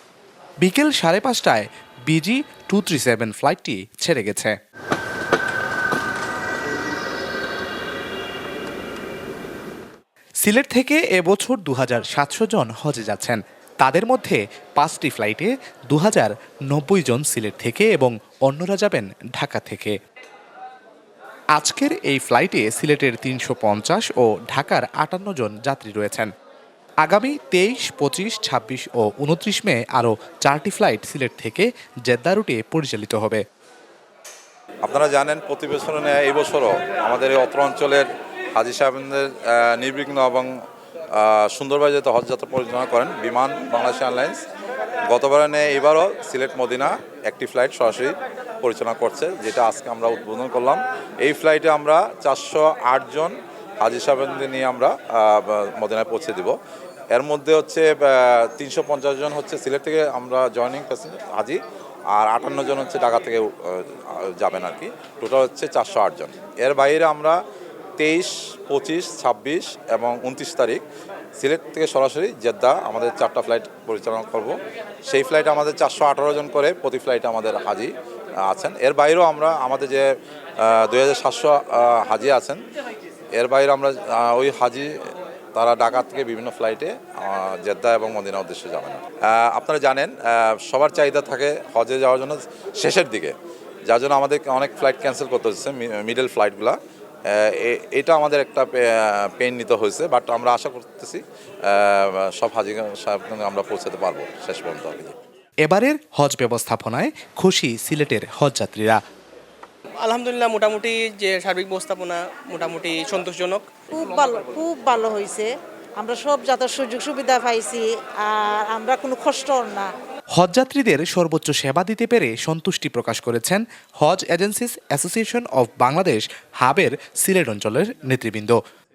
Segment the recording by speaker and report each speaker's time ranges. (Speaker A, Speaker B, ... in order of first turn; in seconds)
Speaker A: 0.6-4.6, 10.4-20.0, 21.6-26.3, 27.0-33.4, 105.7-109.0, 120.4-128.6
Speaker B: 34.8-40.5, 41.1-44.4, 45.1-56.5, 57.1-61.6, 62.1-67.4, 68.0-70.8, 71.4-74.5, 75.1-77.9, 78.4-80.1, 80.6-82.6, 83.3-84.9, 85.5-93.3, 93.9-96.8, 97.3-105.1
Speaker C: 110.0-113.6
Speaker D: 113.9-119.9